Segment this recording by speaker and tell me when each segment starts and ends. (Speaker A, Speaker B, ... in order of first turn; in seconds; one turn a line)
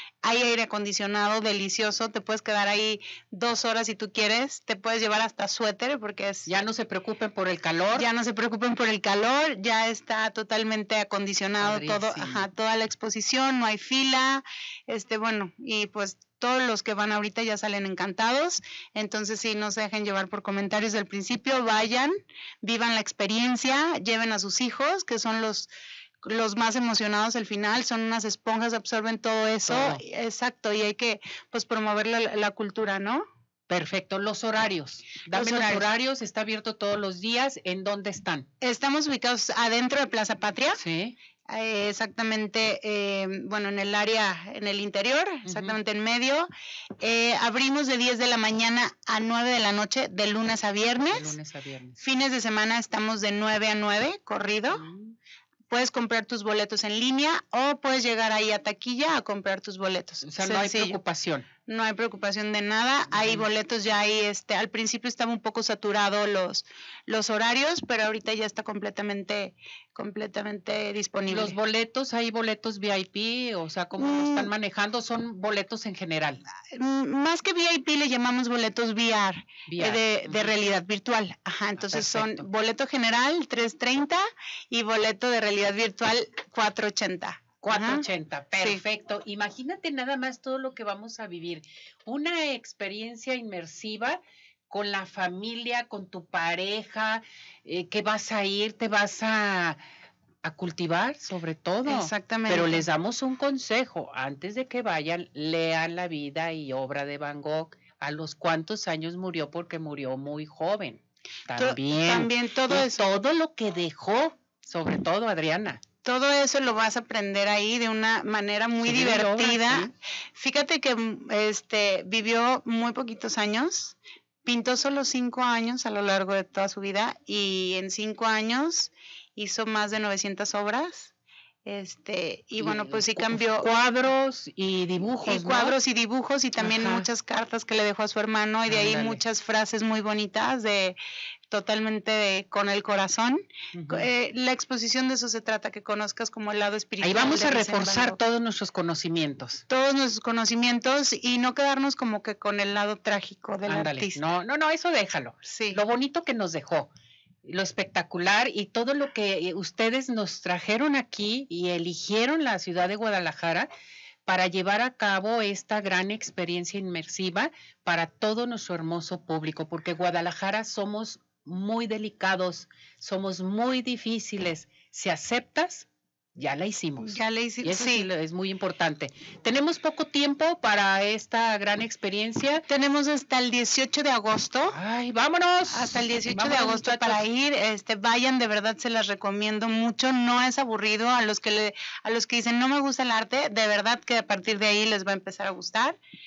Speaker A: 0.2-6.5
Speaker B: 6.5-8.1
Speaker A: 7.9-22.1
Speaker B: 11.6-12.4
Speaker A: 22.6-25.7
Speaker A: 26.2-33.2
Speaker B: 29.7-30.0
Speaker B: 33.7-38.5
Speaker A: 35.3-35.9
Speaker A: 38.6-40.8
Speaker B: 40.8-41.1
Speaker A: 41.5-46.5
Speaker B: 45.5-45.7
Speaker A: 47.0-51.4
Speaker B: 51.1-52.0
Speaker A: 52.0-54.9
Speaker B: 54.7-55.1
Speaker A: 55.7-61.0
Speaker B: 60.2-61.5
Speaker A: 61.7-71.5
Speaker B: 63.1-63.4
Speaker B: 71.3-76.4
Speaker A: 74.0-74.5
Speaker A: 76.7-88.8
Speaker B: 79.7-80.5
Speaker B: 81.8-82.4
Speaker B: 87.6-99.8
Speaker B: 100.4-115.8
Speaker A: 101.8-102.8
Speaker A: 111.5-113.0
Speaker A: 116.0-131.1
Speaker B: 118.8-119.9
Speaker A: 131.6-133.7
Speaker B: 132.6-135.8
Speaker A: 135.2-141.0
Speaker B: 136.6-137.1
Speaker B: 138.7-139.2
Speaker A: 141.5-148.2
Speaker B: 143.7-144.1
Speaker B: 147.0-149.6
Speaker A: 149.7-154.2
Speaker B: 153.7-156.9
Speaker A: 155.4-155.8
Speaker B: 157.4-163.7
Speaker B: 164.2-182.7
Speaker A: 177.0-178.1
Speaker A: 182.7-184.8
Speaker B: 184.7-187.2
Speaker A: 185.7-196.0